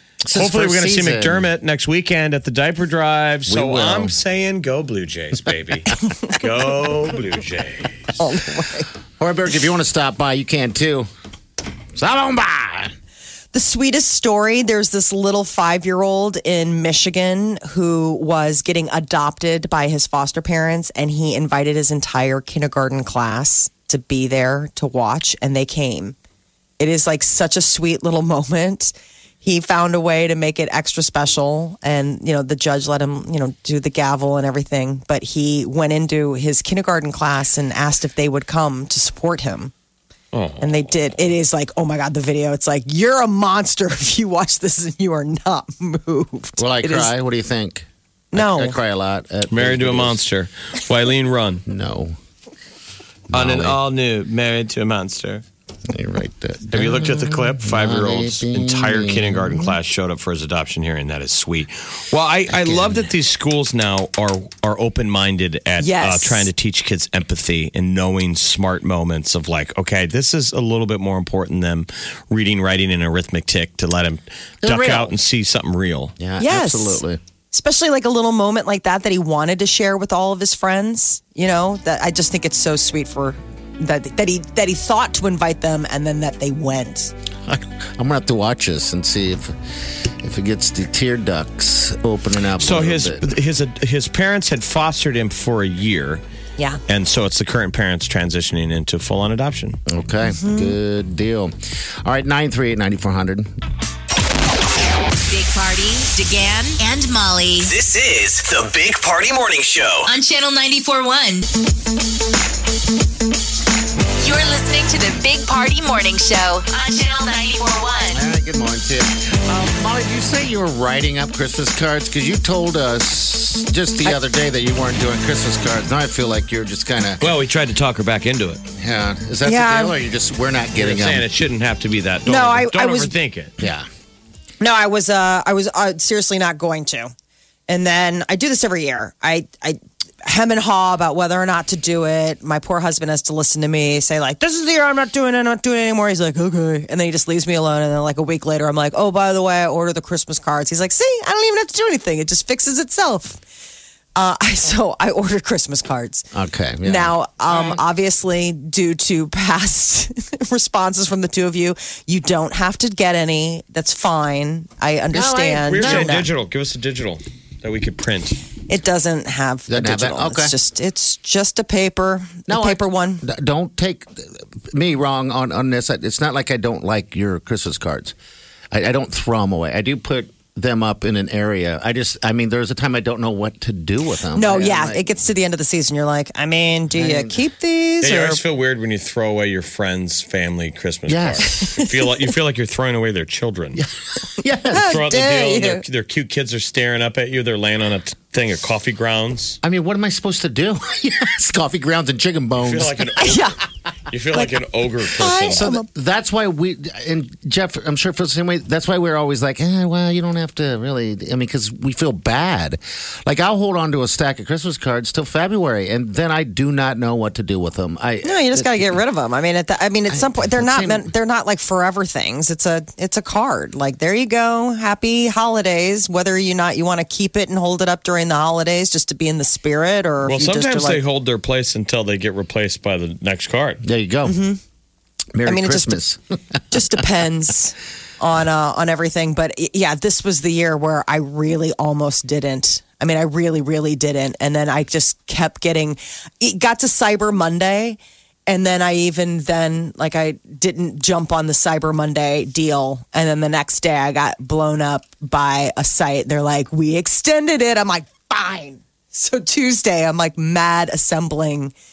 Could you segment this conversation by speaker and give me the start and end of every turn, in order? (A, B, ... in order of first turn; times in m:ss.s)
0:00.2-0:01.5 A
0:00.3-0:08.2 B
0:03.5-0:04.2 A
0:08.2-0:08.9 C
0:09.2-0:11.1 A
0:12.0-0:12.9 A
0:13.5-0:26.2 C
0:26.8-0:39.7 C
0:40.3-0:40.8 B
0:40.6-0:47.1 C
0:46.6-0:50.2 A
0:48.3-0:48.8 C
0:49.5-0:51.6 B
0:51.7-0:52.2 A
0:53.3-0:53.8 A
0:53.3-0:55.4 B
0:55.9-0:59.7 A
0:56.7-1:16.1 B
1:02.5-1:03.0 A
1:05.8-1:06.5 C
1:14.6-1:15.1 A
1:16.2-1:17.2 A
1:16.4-1:27.1 C
1:27.5-1:29.5 A
1:30.2-1:33.3 A
1:32.6-1:36.2 B
1:36.9-1:39.8 B
1:39.9-1:41.5 A
1:40.2-1:40.7 C
1:42.0-1:43.5 A
1:45.2-1:47.7 D
1:47.6-1:50.1 E
1:50.0-1:51.4 D
1:54.2-1:58.2 D
1:58.1-2:07.3 A
2:07.2-2:08.6 B
2:08.8-2:11.3 A
2:09.4-2:10.0 C
2:10.7-2:13.5 B
2:12.2-2:13.1 C
2:13.6-2:13.8 A
2:14.6-2:17.1 C
2:17.7-2:33.4 C
2:34.2-2:36.3 C
2:36.3-2:37.8 A
2:36.8-2:46.3 C
2:45.1-2:46.2 A
2:45.6-2:48.4 B
2:48.7-2:53.2 C
2:49.7-2:50.5 A
2:52.5-2:58.2 A
2:58.7-3:05.0 A
3:04.3-3:08.4 C
3:06.9-3:07.4 A
3:08.0-3:13.8 B
3:11.1-3:11.8 A
3:13.8-3:14.9 A
3:14.7-3:15.8 C
3:14.8-3:19.6 B
3:19.6-3:23.4 A
3:22.6-3:25.7 B
3:23.2-3:23.6 C
3:25.1-3:25.8 C
3:25.5-3:39.0 A
3:38.2-3:51.0 C
3:40.1-3:41.1 A
3:50.2-3:53.8 B
3:53.8-3:54.4 A
3:54.2-3:54.6 C
3:55.3-3:56.2 A
3:55.4-3:56.0 C
3:56.7-4:21.7 C